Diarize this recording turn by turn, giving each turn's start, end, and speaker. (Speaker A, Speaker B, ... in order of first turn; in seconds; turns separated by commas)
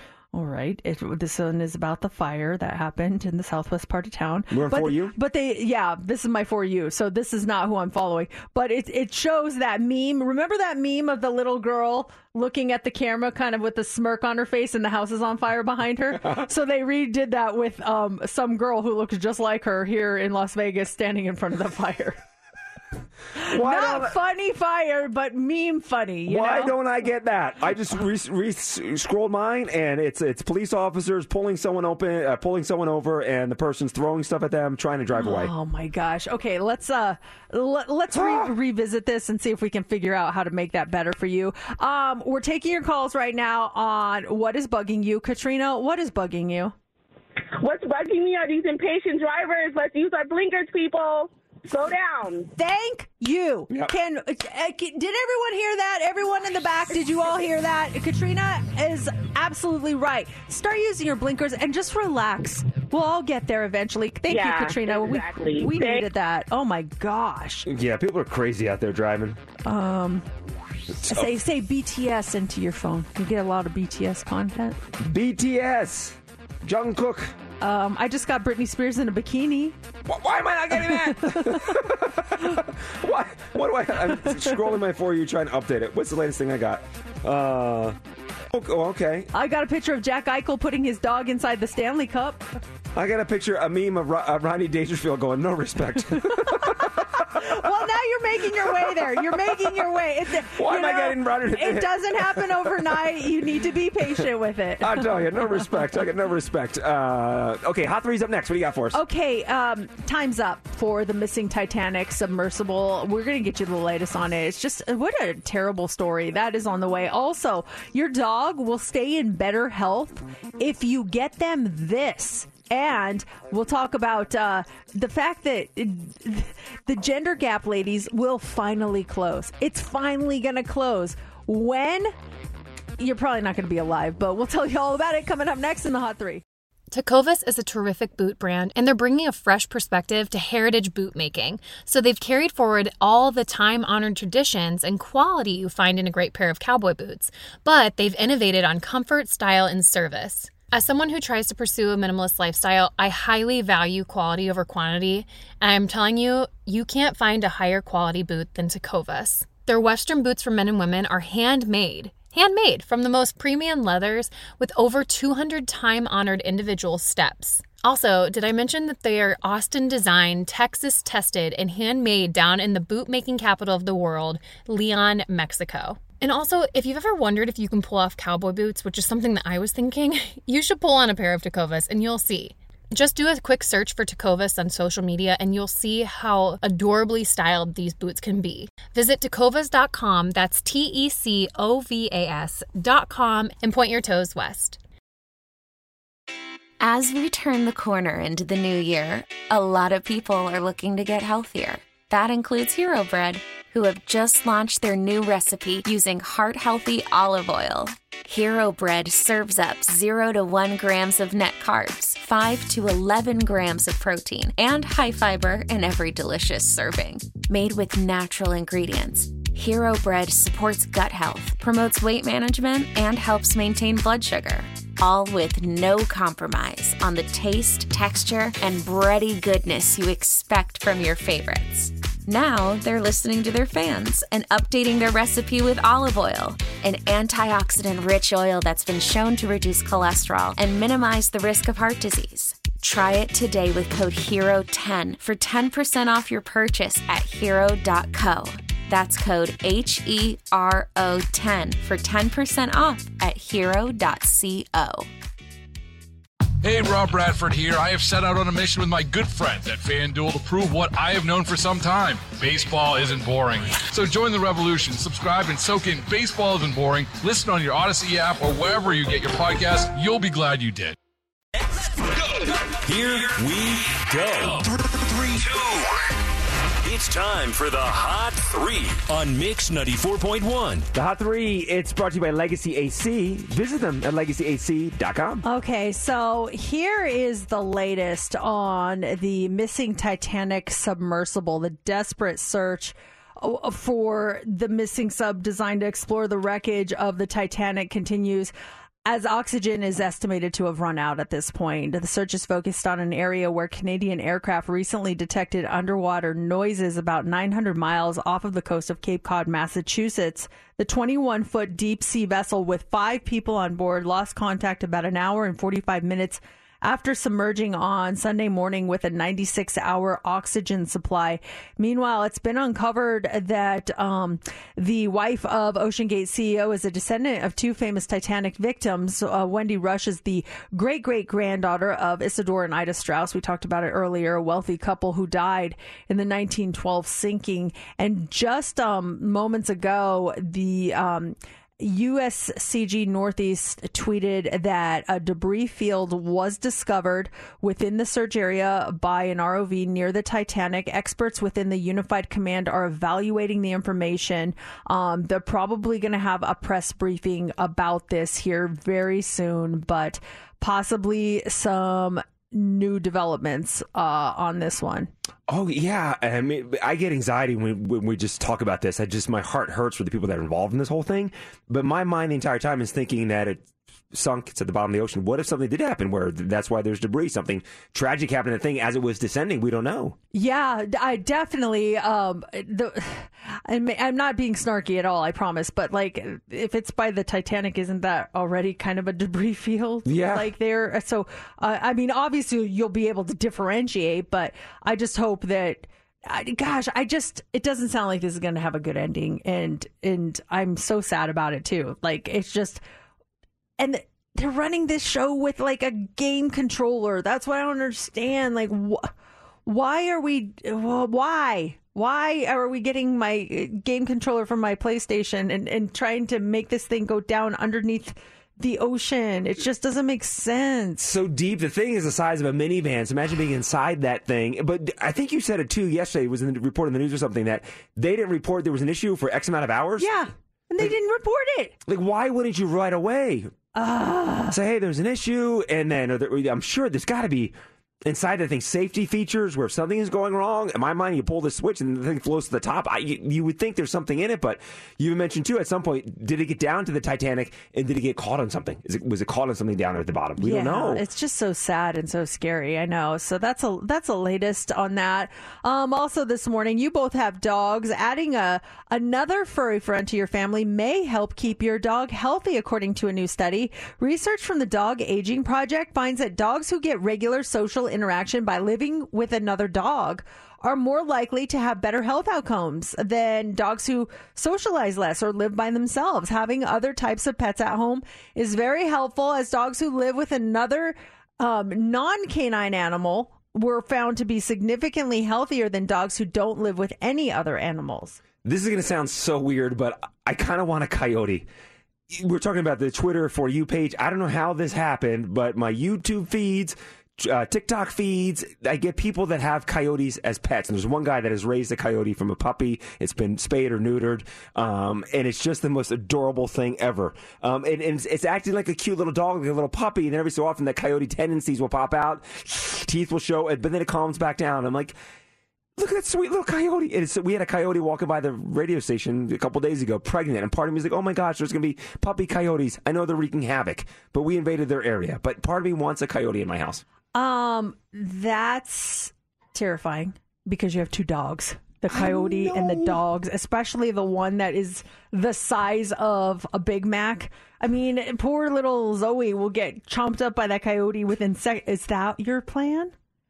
Speaker A: 0.3-22.2, Speaker B: 4.5-5.1, Speaker A: 23.4-26.8, Speaker B: 23.5-24.1, Speaker B: 26.3-35.5, Speaker A: 35.1-46.7, Speaker B: 38.1-38.5, Speaker C: 47.6-52.5, Speaker A: 52.5-67.7, Speaker C: 64.3-66.1, Speaker B: 67.7-69.4, Speaker A: 69.6-70.2, Speaker A: 71.0-74.8, Speaker B: 71.0-71.3, Speaker B: 75.0-77.3, Speaker A: 77.6-79.8, Speaker B: 80.1-88.0, Speaker A: 80.7-81.8, Speaker A: 84.2-84.6, Speaker B: 88.5-89.3, Speaker A: 89.3-92.4, Speaker B: 92.9-97.7, Speaker A: 96.2-105.7, Speaker B: 98.6-103.1, Speaker B: 104.8-109.0, Speaker A: 108.9-132.1, Speaker A: 133.0-136.4, Speaker D: 136.9-194.8, Speaker E: 196.8-255.1, Speaker F: 256.6-270.9, Speaker G: 272.8-276.0, Speaker G: 276.8-280.9, Speaker B: 280.9-285.4, Speaker A: 285.4-298.5, Speaker A: 299.1-365.1, Speaker B: 365.5-380.2, Speaker A: 380.3-402.8, Speaker B: 390.1-390.5, Speaker A: 403.8-409.1, Speaker A: 409.6-421.1, Speaker B: 421.0-430.1, Speaker A: 430.0-431.7, Speaker B: 431.9-433.5, Speaker A: 433.7-434.6, Speaker B: 434.5-437.5, Speaker B: 438.1-451.0, Speaker A: 450.4-488.2, Speaker B: 488.4-491.5, Speaker B: 492.1-514.9, Speaker B: 515.8-526.8, Speaker A: 527.1-542.9, Speaker B: 531.9-533.0